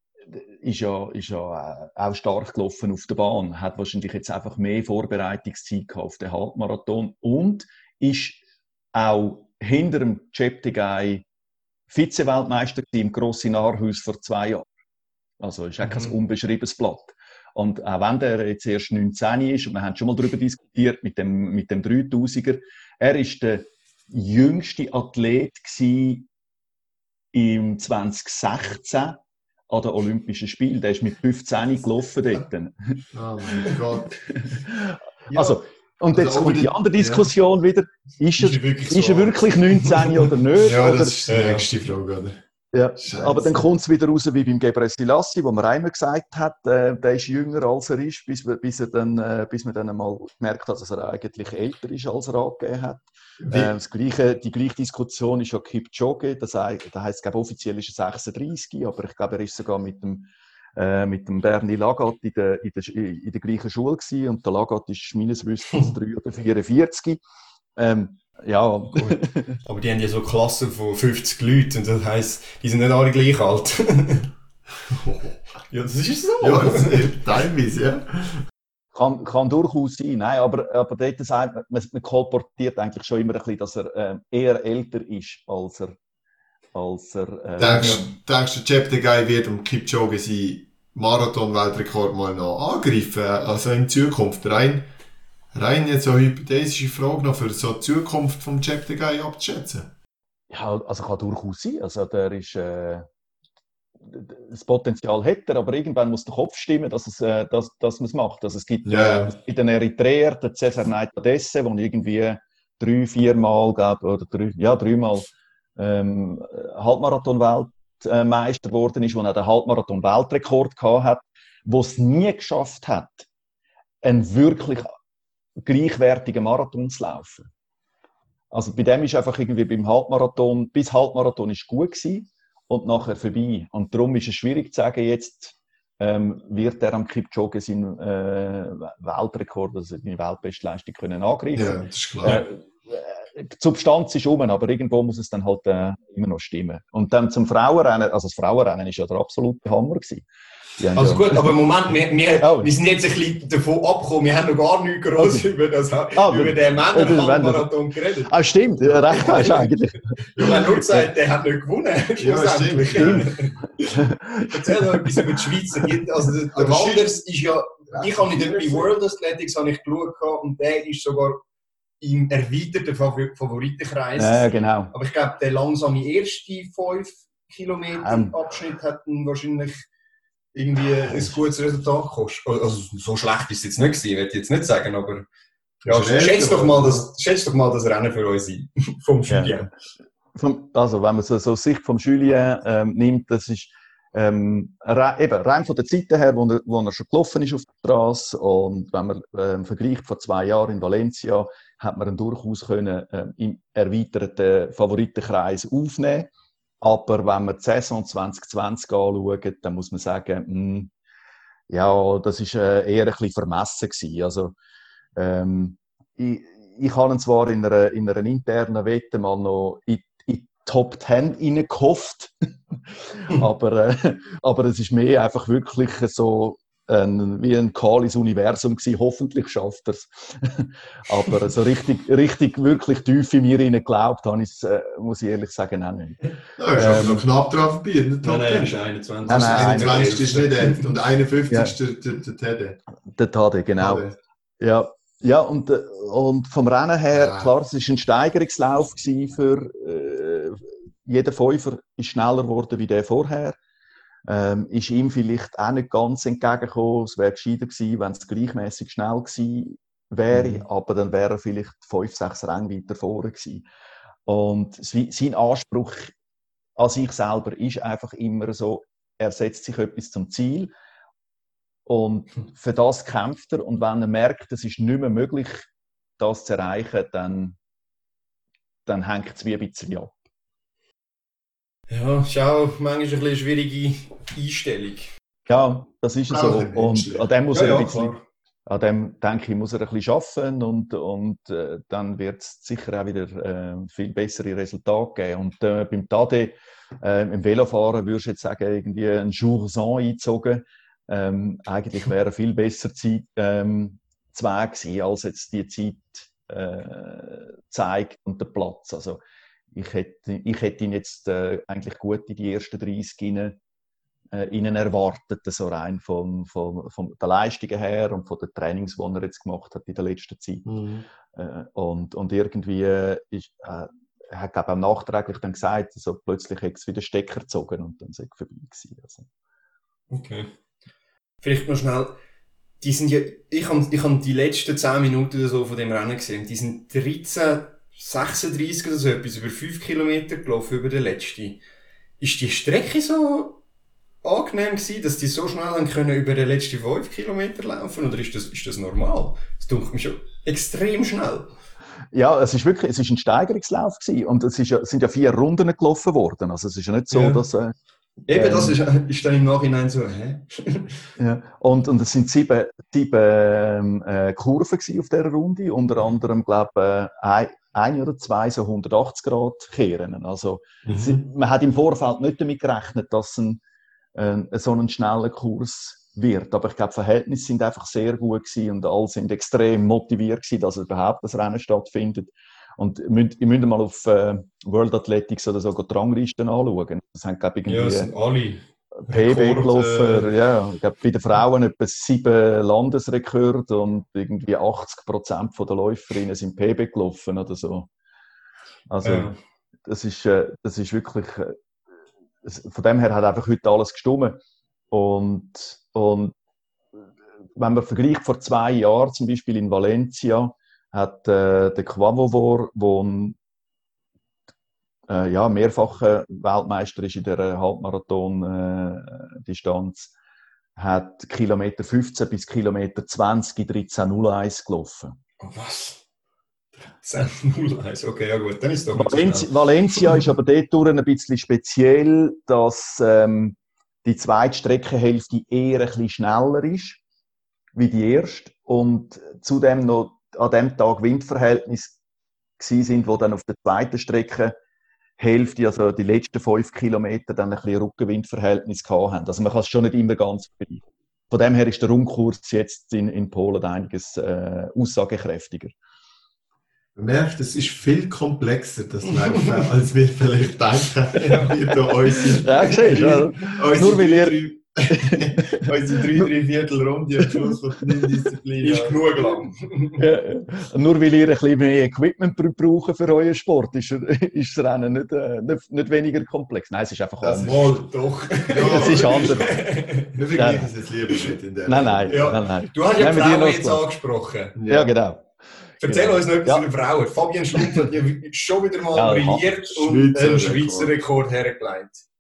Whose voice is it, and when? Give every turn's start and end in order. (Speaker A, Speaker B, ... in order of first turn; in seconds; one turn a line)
Speaker A: 0.3-8.4
Speaker A: 8.9-11.2
Speaker A: 11.9-14.7
Speaker A: 15.4-26.3
Speaker B: 15.8-16.1
Speaker A: 27.3-33.0
Speaker C: 33.1-34.1
Speaker A: 34.4-41.2
Speaker B: 35.3-35.6
Speaker C: 36.1-37.3
Speaker B: 38.4-40.3
Speaker C: 40.5-42.4
Speaker B: 41.3-41.6
Speaker A: 42.7-67.2
Speaker C: 43.0-43.6
Speaker C: 53.4-53.7
Speaker A: 67.8-69.5
Speaker B: 68.9-74.3
Speaker C: 74.9-75.4
Speaker B: 75.7-77.1
Speaker C: 76.4-78.4
Speaker A: 78.9-86.0
Speaker A: 86.7-88.0
Speaker C: 87.6-94.9
Speaker B: 87.6-88.0
Speaker C: 95.5-99.9
Speaker A: 100.5-103.1
Speaker A: 104.0-123.3
Speaker C: 108.8-109.3
Speaker A: 124.0-124.9
Speaker A: 125.6-127.5
Speaker A: 128.5-150.2
Speaker C: 141.5-142.4
Speaker A: 150.8-151.6
Speaker B: 150.9-159.8
Speaker A: 152.4-152.7
Speaker A: 156.2-157.7
Speaker A: 158.3-161.1
Speaker B: 160.4-171.4
Speaker C: 160.4-160.6
Speaker C: 162.2-163.4
Speaker A: 163.0-163.2
Speaker A: 163.9-165.5
Speaker C: 166.5-167.2
Speaker C: 167.9-168.9
Speaker B: 172.0-179.8
Speaker A: 174.2-174.9
Speaker A: 177.9-178.3
Speaker B: 180.6-185.3
Speaker C: 185.8-187.1
Speaker B: 185.9-189.7
Speaker A: 189.3-189.6
Speaker A: 190.3-210.9
Speaker A: 211.7-214.6
Speaker A: 215.2-236.2
Speaker C: 236.6-242.8
Speaker A: 236.7-237.2
Speaker B: 236.8-237.2
Speaker B: 238.2-240.9
Speaker A: 239.3-240.2
Speaker A: 243.1-244.1
Speaker C: 243.8-244.2
Speaker A: 244.6-253.6
Speaker C: 247.1-247.5
Speaker A: 254.3-263.7
Speaker C: 260.3-260.6
Speaker A: 264.3-266.1
Speaker A: 266.8-270.7
Speaker A: 271.9-275.6
Speaker A: 276.2-277.6
Speaker A: 278.9-280.2
Speaker B: 281.9-285.1
Speaker A: 285.5-288.1
Speaker C: 286.3-287.3
Speaker B: 287.5-288.2
Speaker A: 288.7-309.2
Speaker A: 309.7-313.6
Speaker A: 314.3-320.7
Speaker C: 320.6-321.1
Speaker A: 321.3-329.3
Speaker B: 330.1-330.5
Speaker B: 331.4-332.1
Speaker B: 332.8-341.6
Speaker B: 342.2-343.6
Speaker B: 344.2-351.5
Speaker A: 352.1-357.7
Speaker B: 357.1-357.4
Speaker B: 358.3-361.0
Speaker A: 358.3-358.8
Speaker A: 361.2-373.6
Speaker C: 370.9-371.2
Speaker A: 374.1-388.1
Speaker B: 387.7-390.3
Speaker A: 389.1-397.9
Speaker A: 398.9-399.3
Speaker B: 399.0-399.4
Speaker A: 399.9-401.6
Speaker A: 402.4-406.3
Speaker A: 407.6-413.4
Speaker A: 415.1-420.1
Speaker A: 420.8-425.2
Speaker B: 425.4-426.0
Speaker B: 427.0-430.2
Speaker A: 428.9-437.0
Speaker A: 437.8-442.0
Speaker A: 442.6-444.6
Speaker A: 445.2-455.7
Speaker C: 457.0-469.1
Speaker B: 461.1-461.9
Speaker A: 462.4-465.7
Speaker B: 468.6-470.1
Speaker A: 470.0-477.8
Speaker C: 477.2-477.8
Speaker B: 477.4-480.2
Speaker C: 478.5-479.4
Speaker A: 478.5-479.6
Speaker C: 480.1-482.3
Speaker A: 480.4-480.6
Speaker A: 481.7-483.8
Speaker B: 482.1-484.6
Speaker C: 484.6-484.9
Speaker A: 484.7-485.3
Speaker B: 485.8-492.0
Speaker A: 485.8-486.6
Speaker A: 487.6-487.9
Speaker A: 488.9-489.5
Speaker C: 489.7-491.0